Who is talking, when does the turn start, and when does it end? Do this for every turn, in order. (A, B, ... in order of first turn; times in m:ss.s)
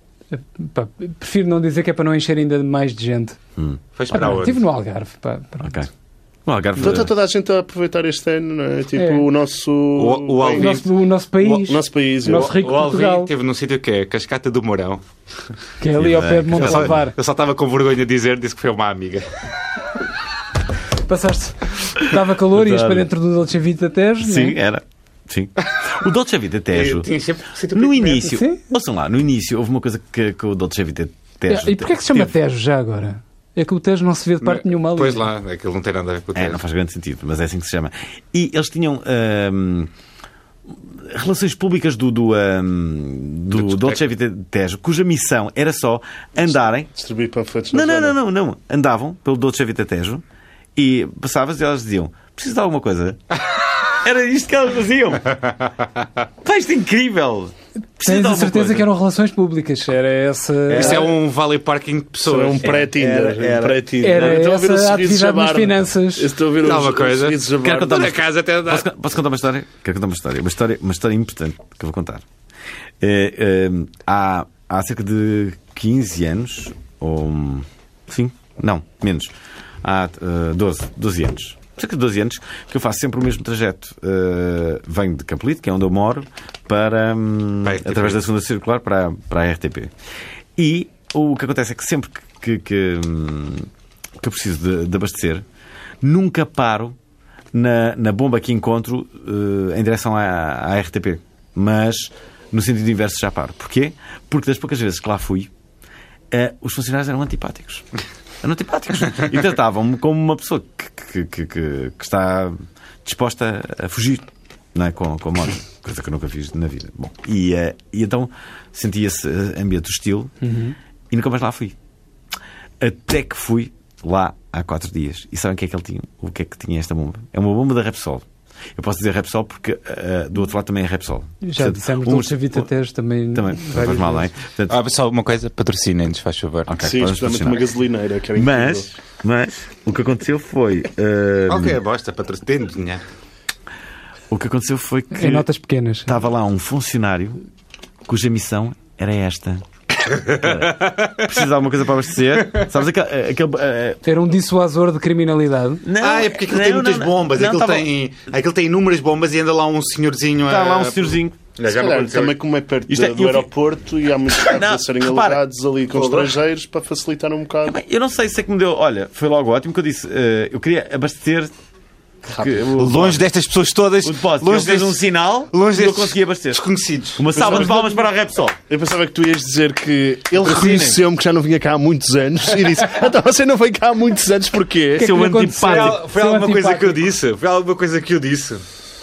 0:00.3-0:03.4 A
0:04.0-0:04.6 B
0:04.1-0:05.8 A
0:05.6-0:05.9 C
0:06.5-0:07.1 C
0:06.8-0:10.8 D
0:09.0-0:09.3 A
0:10.0-0:10.9 B
0:10.5-0:13.3 A
0:11.4-0:12.6 D
0:12.4-0:15.0 B
0:15.8-0:17.2 A
0:16.0-0:17.0 C
0:16.5-0:19.3 B
0:21.1-0:24.6 A
0:22.5-0:23.1 C
0:24.2-0:27.1 C
0:26.7-0:28.3 B
0:27.7-0:32.3 C
0:28.2-0:28.6 A
0:31.5-0:35.3 A
0:34.4-0:36.6 B
0:36.4-0:39.9 C
0:40.9-0:46.9 C
0:43.5-0:44.0 B
0:46.9-0:48.2 D
0:47.7-0:50.2 C
0:50.8-0:53.4 C
0:53.9-0:55.3 C
0:56.4-0:58.9 C
0:58.0-1:01.0 A
1:00.7-1:01.0 C
1:00.7-1:03.0 B
1:02.2-1:08.2 D
1:02.8-1:03.8 C
1:04.0-1:06.3 A
1:06.6-1:08.9 B
1:07.6-1:12.2 C
1:13.0-1:19.3 C
1:19.8-1:29.9 C
1:27.6-1:28.2 B
1:30.6-1:33.7 C
1:34.2-1:35.4 C
1:36.0-1:37.0 C
1:37.5-1:45.5 C
1:46.3-1:47.9 C
1:48.4-2:00.3 C
2:00.4-2:00.8 A
2:01.1-2:01.8 C
2:02.8-2:08.2 C
2:08.8-2:12.7 C
2:11.4-2:14.3 A
2:13.3-2:14.8 C
2:14.7-2:16.7 B
2:16.7-2:17.7 C
2:16.8-2:18.9 D
2:18.4-2:21.8 C
2:21.5-2:23.0 B
2:24.3-2:25.5 C
2:25.1-2:26.1 A
2:26.1-2:27.4 C
2:28.1-2:29.6 C
2:30.1-2:31.3 B
2:30.2-2:34.0 C
2:34.0-2:35.8 A
2:35.8-2:37.9 C
2:36.0-2:42.4 B
2:40.5-2:41.4 C
2:41.6-2:47.8 D
2:42.9-2:43.5 C
2:44.4-2:45.4 C
2:47.7-2:51.5 C
2:52.2-2:53.3 C
2:52.3-2:52.9 D
2:52.8-2:57.8 B
2:54.0-2:56.6 C
2:57.2-2:58.6 C
2:57.4-2:57.8 D
2:58.7-3:05.2 D
3:00.4-3:01.0 C
3:05.0-3:07.0 A
3:05.0-3:06.0 C
3:05.6-3:08.6 B